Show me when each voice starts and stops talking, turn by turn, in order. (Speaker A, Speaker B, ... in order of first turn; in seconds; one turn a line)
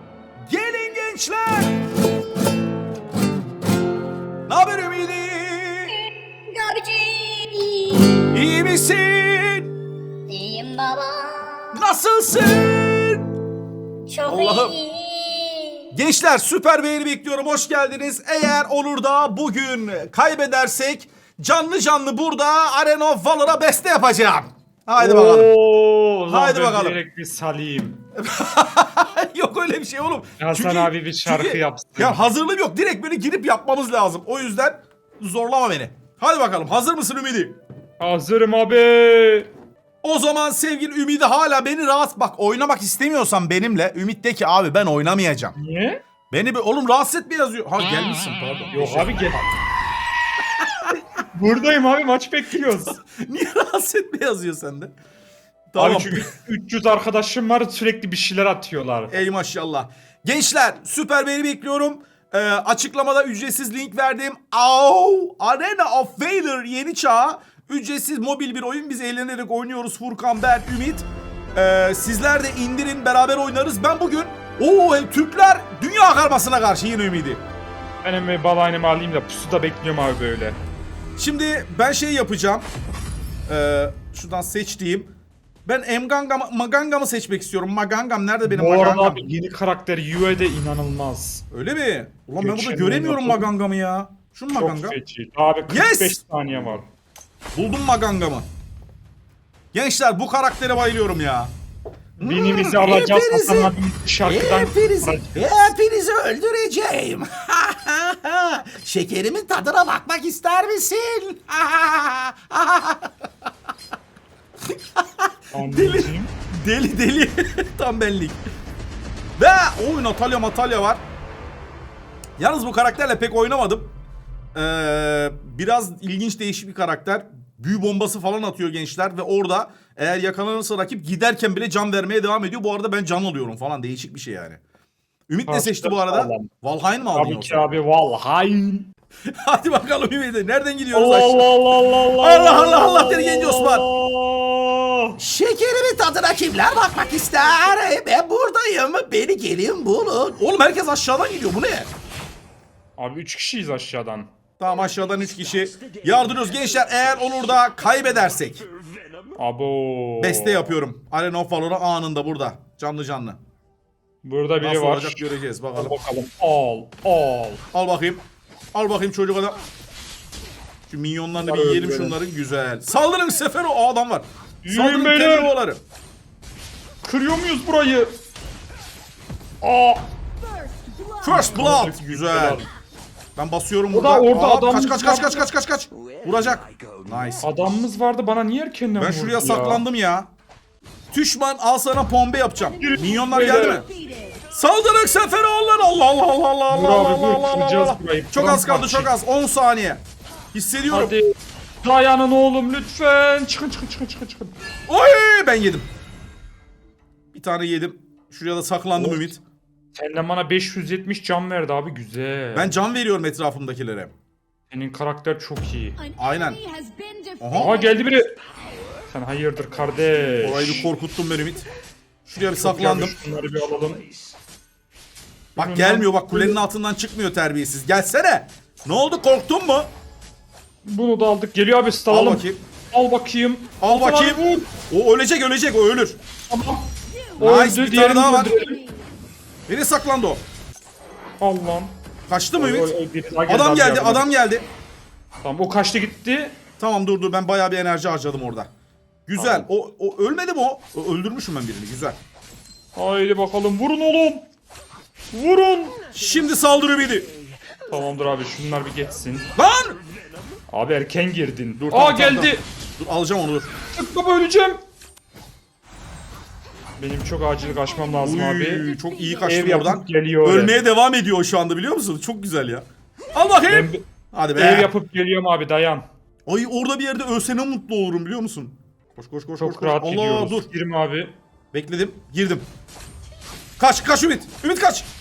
Speaker A: 0.4-1.8
Speaker A: 4.5-6.0
Speaker B: 6.0-8.3
Speaker A: 8.3-9.7
Speaker B: 10.3-11.8
Speaker A: 11.7-13.2
Speaker B: 14.1-15.9
Speaker A: 14.2-14.8
Speaker A: 15.9-25.5
Speaker C: 25.0-28.0
Speaker A: 26.3-27.0
Speaker A: 28.1-37.6
Speaker C: 30.4-32.2
Speaker C: 38.0-39.5
Speaker A: 40.0-45.5
Speaker C: 45.5-46.0
Speaker A: 46.3-49.5
Speaker C: 48.7-49.4
Speaker C: 51.3-53.0
Speaker A: 52.8-54.9
Speaker A: 55.7-56.3
Speaker C: 55.8-59.1
Speaker A: 59.1-77.4
Speaker C: 78.0-80.6
Speaker A: 81.2-82.7
Speaker A: 83.5-85.1
Speaker A: 85.7-89.2
Speaker C: 88.4-91.4
Speaker A: 91.5-95.0
Speaker C: 92.4-93.5
Speaker C: 94.5-96.8
Speaker A: 95.7-96.2
Speaker A: 97.5-98.5
Speaker A: 99.7-101.5
Speaker A: 102.2-113.1
Speaker C: 102.2-105.7
Speaker A: 115.0-118.4
Speaker C: 115.5-116.3
Speaker A: 119.4-121.0
Speaker A: 122.4-123.9
Speaker A: 124.5-134.6
Speaker A: 135.3-137.7
Speaker C: 135.5-136.5
Speaker C: 137.1-138.9
Speaker A: 139.3-141.4
Speaker C: 140.9-145.2
Speaker A: 142.2-143.8
Speaker A: 145.2-151.9
Speaker C: 153.0-154.3
Speaker A: 154.6-158.7
Speaker C: 159.3-160.8
Speaker A: 160.2-163.4
Speaker C: 164.2-165.2
Speaker A: 164.6-165.9
Speaker C: 165.8-167.6
Speaker A: 167.7-169.6
Speaker A: 170.9-175.8
Speaker C: 171.3-172.2
Speaker C: 174.6-175.5
Speaker C: 177.0-178.1
Speaker C: 179.6-180.0
Speaker A: 181.2-182.6
Speaker C: 181.3-182.7
Speaker A: 183.3-187.5
Speaker C: 183.9-185.5
Speaker C: 187.4-189.8
Speaker A: 189.0-190.3
Speaker A: 191.1-193.9
Speaker C: 192.8-193.8
Speaker A: 194.5-200.0
Speaker C: 196.7-199.1
Speaker A: 200.5-201.2
Speaker C: 200.9-204.5
Speaker A: 204.9-205.9
Speaker A: 207.3-209.4
Speaker C: 208.9-209.3
Speaker C: 209.9-212.8
Speaker A: 212.5-214.1
Speaker C: 214.7-216.1
Speaker A: 216.2-216.6
Speaker A: 217.4-217.8
Speaker C: 217.5-218.3
Speaker C: 219.1-220.9
Speaker A: 220.4-221.7
Speaker A: 222.2-223.1
Speaker C: 222.4-224.1
Speaker C: 225.6-226.6
Speaker A: 225.6-229.9
Speaker C: 230.8-234.7
Speaker A: 232.1-232.6
Speaker A: 233.8-236.2
Speaker C: 236.5-238.8
Speaker A: 237.4-238.6
Speaker A: 239.7-240.4
Speaker C: 241.4-241.9
Speaker A: 242.3-242.9
Speaker C: 242.6-244.3
Speaker A: 243.5-244.7
Speaker C: 245.4-246.6
Speaker A: 246.8-248.7
Speaker A: 249.3-252.2
Speaker C: 249.4-249.7
Speaker C: 252.9-254.4
Speaker C: 255.3-256.0
Speaker A: 256.1-257.3
Speaker C: 257.9-259.5
Speaker A: 259.6-260.0
Speaker C: 260.7-262.6
Speaker A: 261.8-263.7
Speaker C: 263.9-264.8
Speaker C: 267.0-270.8
Speaker A: 268.2-274.9
Speaker C: 273.7-274.0
Speaker C: 274.6-276.0
Speaker A: 276.4-280.7
Speaker C: 279.6-281.3
Speaker A: 281.7-282.6
Speaker A: 283.8-285.1